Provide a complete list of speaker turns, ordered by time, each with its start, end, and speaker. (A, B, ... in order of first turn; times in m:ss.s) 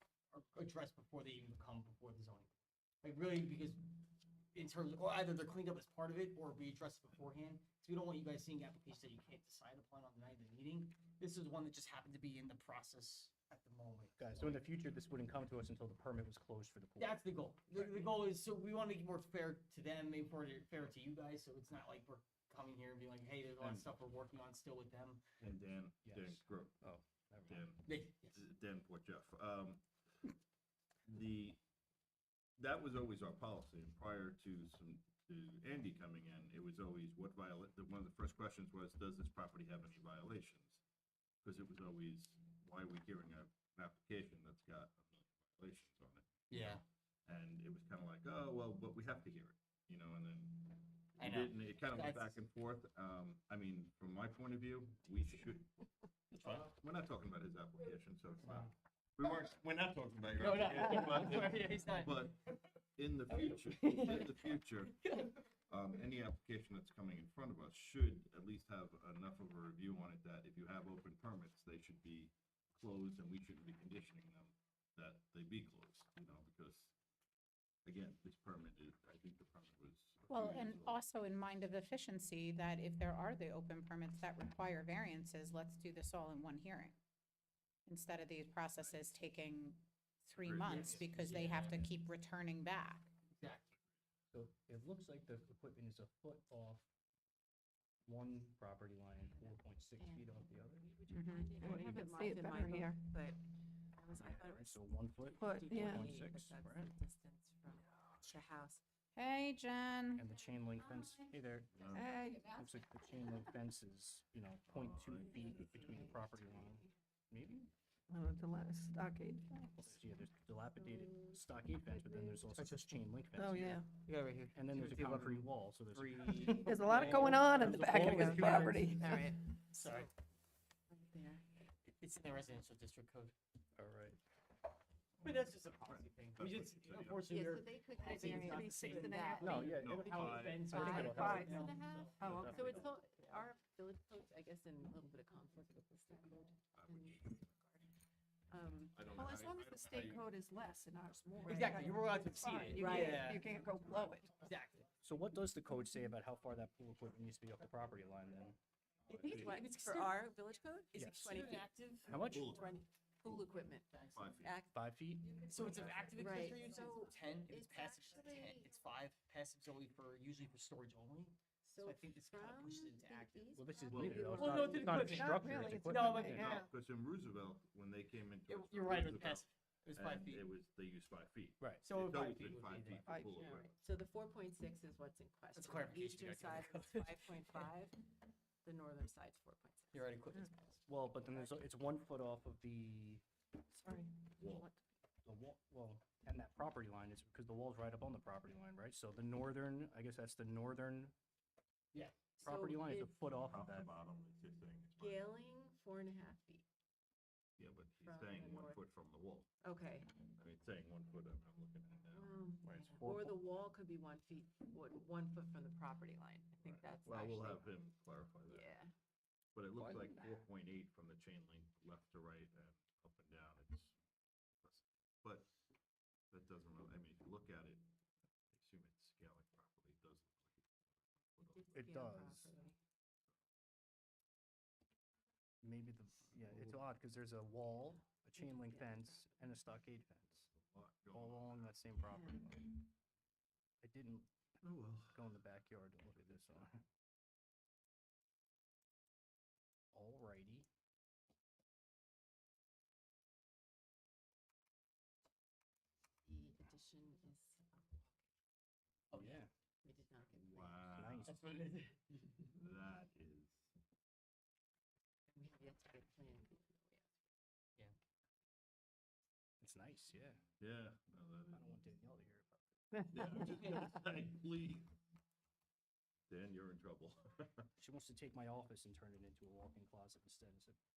0:00.3-0:02.5 A
0:03.0-0:03.9 A
0:04.5-0:14.7 A
0:14.2-0:18.1 B
0:17.0-0:25.2 A
0:25.4-0:26.8 C
0:26.0-0:27.7 B
0:27.5-0:30.3 C
0:27.8-0:28.4 A
0:31.0-0:31.6 C
0:32.6-0:40.8 C
0:41.4-0:55.7 C
0:46.5-0:46.8 A
0:51.2-0:52.4 A
0:56.3-0:56.7 A
0:56.4-1:02.4 C
1:00.4-1:02.3 A
1:03.0-1:16.9 C
1:04.0-1:04.4 D
1:17.9-1:21.0 C
1:20.3-1:27.0 E
1:27.9-1:33.1 E
1:30.4-1:31.9 C
1:30.7-1:31.8 A
1:33.4-1:33.7 A
1:34.3-1:36.9 B
1:38.0-1:40.9 B
1:39.2-1:48.8 F
1:41.1-1:43.0 D
1:44.2-1:46.9 B
1:45.4-1:46.2 D
1:49.2-1:50.2 E
1:50.2-1:57.7 B
1:51.7-1:52.2 C
1:51.9-1:52.6 D
1:54.7-1:55.9 C
1:55.2-1:56.9 F
1:58.1-1:59.8 D
1:59.7-2:03.8 B
2:00.8-2:02.6 F
2:03.4-2:03.9 D
2:04.0-2:09.2 A
2:04.5-2:06.8 B
2:06.6-2:09.3 D
2:07.4-2:09.2 B
2:08.0-2:10.1 F
2:09.7-2:10.1 A
2:10.9-2:11.5 F
2:11.9-2:13.3 A
2:13.8-2:14.2 B
2:15.2-2:17.4 C
2:15.2-2:22.3 A
2:17.3-2:19.7 F
2:18.0-2:19.6 D
2:19.4-2:23.0 B
2:19.6-2:21.0 C
2:20.7-2:22.7 D
2:20.8-2:27.9 F
2:22.2-2:22.7 C
2:26.7-2:27.4 C
2:28.5-2:29.1 F
2:29.0-2:30.3 C
2:29.0-2:34.4 D
2:31.4-2:33.5 A
2:32.7-2:33.5 F
2:33.8-2:34.1 C
2:34.4-2:34.9 A
2:35.0-2:38.6 B
2:39.1-2:40.1 A
2:39.1-2:39.6 C
2:39.2-2:44.8 F
2:41.0-2:41.3 B
2:41.0-2:42.1 A
2:42.0-2:42.6 B
2:42.3-2:42.8 C
2:43.9-2:44.3 A
2:44.1-2:44.6 C
2:44.7-2:46.0 B
2:45.4-2:53.6 A
2:46.1-2:48.8 F
2:51.6-2:55.0 F
2:53.6-2:56.6 B
2:53.9-2:54.4 C
2:54.2-2:56.6 A
2:54.6-2:56.7 D
2:56.2-3:03.7 C
2:58.5-3:00.5 A
3:01.8-3:03.2 A
3:03.1-3:03.7 D
3:03.4-3:08.1 F
3:05.6-3:07.7 A
3:08.6-3:10.1 F
3:09.9-3:10.5 A
3:10.9-3:13.2 B
3:14.4-3:14.7 C
3:15.2-3:21.1 B
3:21.9-3:22.2 A
3:22.4-3:23.2 F
3:22.4-3:24.0 B
3:23.4-3:25.3 C
3:25.0-3:26.6 F
3:27.6-3:29.5 C
3:28.0-3:28.8 F
3:29.6-3:30.2 F
3:30.2-3:33.0 C
3:32.1-3:37.7 F
3:32.9-3:33.4 B
3:36.6-3:38.7 C
3:38.5-3:38.9 F
3:39.6-3:44.0 C
3:39.8-3:40.4 B
3:44.6-3:45.5 C
3:46.3-3:47.8 C
3:48.5-3:50.7 C
3:51.4-3:51.8 C
3:51.4-3:52.8 F
3:51.7-3:52.5 B
3:55.6-4:00.5 B
3:56.5-3:56.8 C
3:58.4-3:59.0 F
4:00.5-4:01.7 C
4:01.1-4:02.8 B
4:02.0-4:02.5 F
4:03.8-4:04.3 B
4:04.6-4:05.2 C
4:05.1-4:06.8 B
4:06.1-4:06.6 C
4:09.9-4:10.7 B
4:16.2-4:18.2 F
4:19.1-4:19.5 B
4:19.8-4:20.9 F
4:20.4-4:21.4 C
4:20.9-4:21.4 B
4:21.2-4:22.5 A
4:22.5-4:23.7 C
4:25.3-4:27.1 F
4:29.6-4:30.4 B
4:30.6-4:31.8 C
4:31.5-4:32.8 B
4:33.1-4:34.9 C
4:36.3-4:37.5 C
4:37.8-4:40.8 B